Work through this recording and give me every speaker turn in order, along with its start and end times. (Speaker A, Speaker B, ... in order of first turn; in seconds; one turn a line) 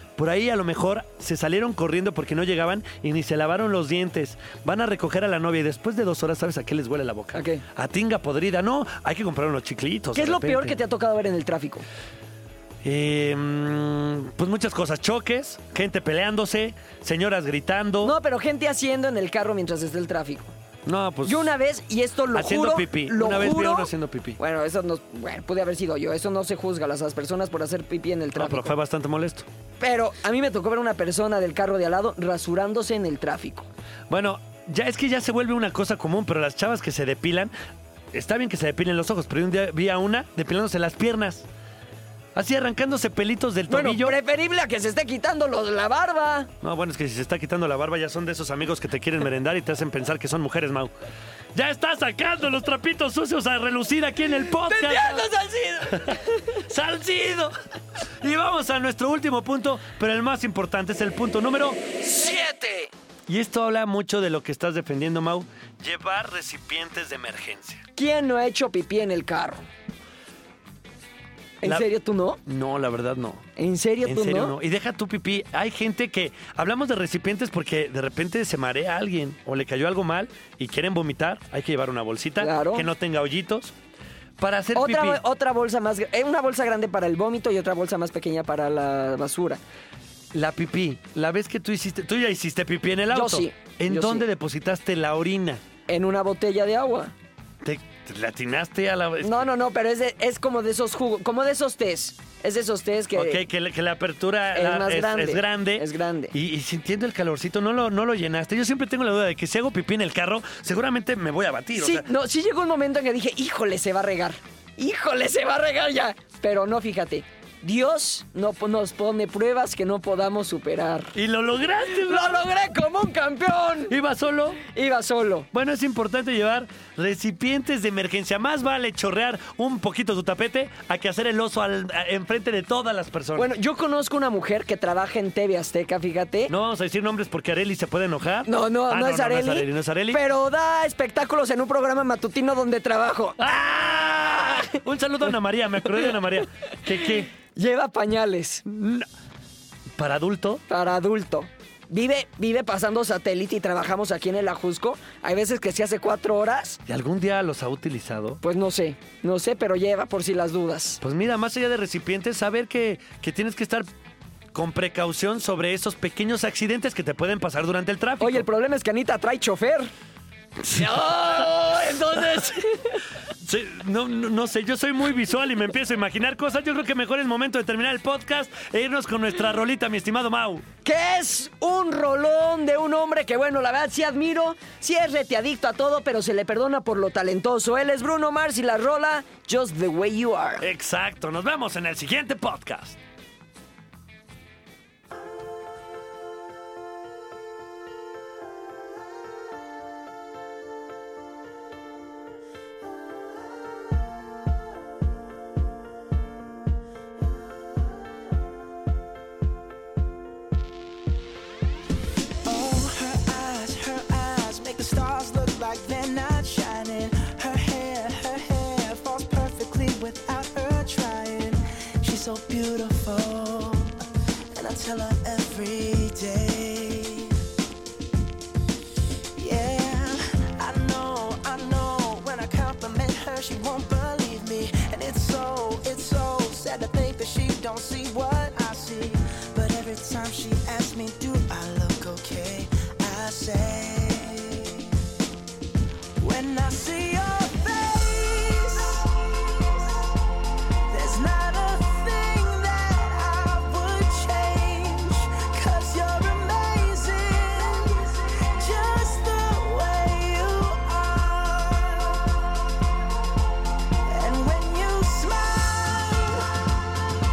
Speaker A: 0.2-10.8
Speaker B: 7.3-7.6
Speaker B: 10.1-11.8
Speaker A: 12.8-18.1
Speaker B: 18.0-20.5
Speaker A: 20.9-21.5
Speaker B: 21.2-28.7
Speaker A: 22.3-24.4
Speaker A: 28.4-29.5
Speaker B: 29.8-33.7
Speaker A: 34.1-37.5
Speaker A: 38.1-41.5
Speaker A: 42.4-44.1
Speaker B: 43.7-46.5
Speaker A: 46.6-50.9
Speaker A: 51.5-55.3
Speaker B: 54.6-56.4
Speaker A: 55.9-57.5
Speaker A: 58.2-61.8
Speaker B: 62.0-62.9
Speaker A: 63.3-67.8
Speaker B: 68.0-69.7
Speaker B: 71.6-72.4
Speaker A: 72.5-73.5
Speaker B: 73.6-74.5
Speaker A: 74.0-83.7
Speaker B: 82.4-82.9
Speaker A: 84.4-85.2
Speaker B: 84.8-89.6
Speaker A: 90.3-95.6
Speaker B: 93.1-94.3
Speaker B: 95.9-97.1
Speaker A: 97.6-99.5
Speaker B: 99.2-103.4
Speaker A: 103.2-112.0
Speaker B: 104.5-106.3
Speaker B: 111.8-121.2
Speaker A: 121.2-122.4
Speaker B: 121.9-124.0
Speaker A: 123.9-124.6
Speaker B: 124.7-125.5
Speaker A: 125.5-133.5
Speaker B: 133.4-136.5
Speaker A: 136.5-140.2
Speaker B: 138.5-143.4
Speaker A: 143.4-147.3
Speaker B: 147.5-148.6
Speaker A: 148.7-149.1
Speaker A: 150.0-150.6
Speaker B: 150.7-156.8
Speaker A: 156.9-158.4
Speaker B: 158.4-161.0
Speaker A: 161.0-163.9
Speaker A: 164.5-168.4
Speaker B: 168.2-169.9
Speaker B: 170.6-173.0
Speaker A: 173.4-180.7
Speaker B: 180.8-190.7
Speaker A: 190.6-193.0
Speaker C: 212.4-224.0
Speaker C: 224.5-227.3
Speaker C: 229.4-244.9
Speaker C: 246.2-250.1
Speaker C: 250.9-262.6
Speaker C: 264.1-266.6